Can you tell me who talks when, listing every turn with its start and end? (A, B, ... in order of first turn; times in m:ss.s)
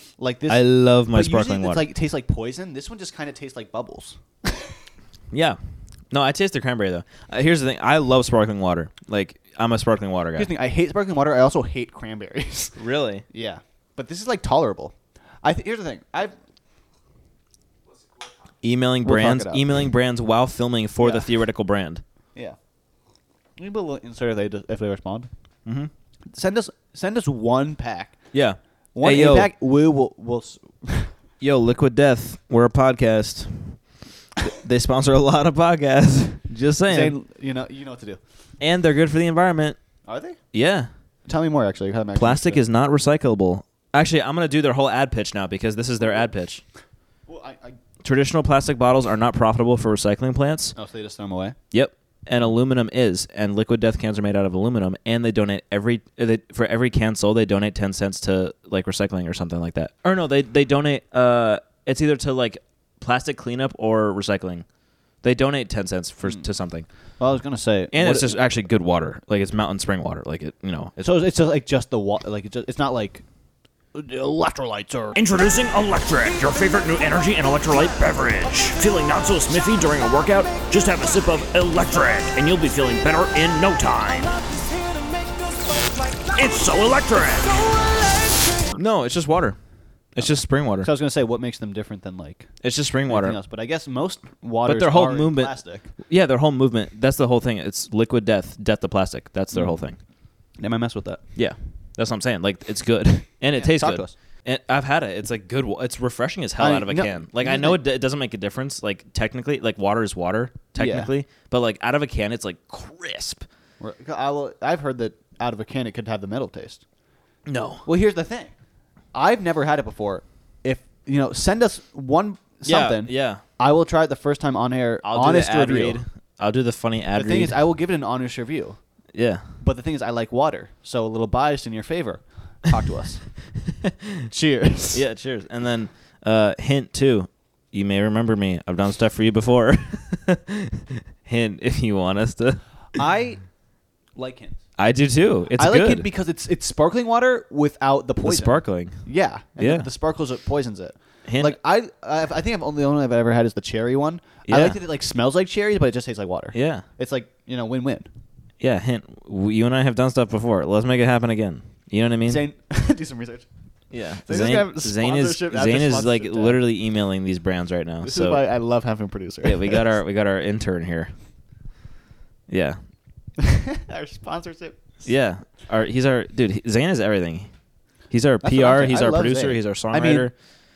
0:00.2-0:04.8 A
0:00.5-0:01.8 B
0:05.3-0:05.6 B
0:06.1-0:10.5 B
0:10.4-0:12.8 A
0:12.8-0:13.2 B
0:13.3-0:16.4 A
0:18.6-0:22.0 B
0:19.0-0:19.9 A
0:21.0-0:21.3 A
0:23.6-0:25.3 A
0:25.7-0:25.9 B
0:26.3-0:28.2 A
0:28.3-0:29.5 B
0:29.0-0:31.1 A
0:31.4-0:33.8 B
0:34.4-0:37.2 B
0:36.9-0:38.2 A
0:38.6-0:39.8 B
0:40.0-0:40.4 A
0:40.5-0:40.9 B
0:41.3-0:42.6 A
0:42.2-0:46.6 B
0:47.3-0:47.8 A
0:48.0-0:50.8 B
0:50.8-0:51.6 A
0:51.7-1:04.7 B
1:05.2-1:06.9 B
1:07.2-1:08.4 A
1:07.9-1:11.0 B
1:11.0-1:13.2 A
1:13.9-1:15.2 A
1:15.2-1:24.3 C
1:15.6-1:24.3 B
1:26.4-1:27.8 C
1:26.4-1:27.6 B
1:28.7-1:29.6 B
1:30.2-1:30.9 B
1:30.2-1:35.9 A
1:32.6-1:33.4 B
1:34.6-1:40.0 B
1:39.5-1:39.8 A
1:40.6-1:41.2 A
1:41.4-1:53.5 B
1:43.5-1:44.1 A
1:46.6-1:47.8 A
1:50.8-1:51.1 A
1:53.8-1:56.8 A
1:57.5-1:57.9 B
1:57.9-1:58.5 A
1:59.1-2:06.0 A
2:02.6-2:03.4 B
2:05.0-2:07.6 B
2:07.2-2:08.8 A
2:09.1-2:09.4 B
2:09.6-2:13.2 A
2:13.8-2:14.1 B
2:14.3-2:15.0 A
2:14.9-2:22.6 B
2:23.0-2:23.4 A
2:24.2-2:24.6 A
2:24.8-2:26.1 B
2:25.6-2:38.1 A
2:28.2-2:29.0 B
2:29.6-2:29.9 B
2:31.3-2:31.6 B
2:34.5-2:34.8 B
2:36.5-2:36.8 B
2:38.6-2:42.4 B
2:42.3-2:43.5 A
2:43.9-2:48.4 B
2:44.2-2:46.6 A
2:48.0-2:49.9 A
2:49.4-2:51.1 B
2:52.5-2:52.8 B
2:53.4-2:55.0 A
2:55.0-2:57.5 B
2:58.1-3:00.3 B
2:58.4-3:00.3 A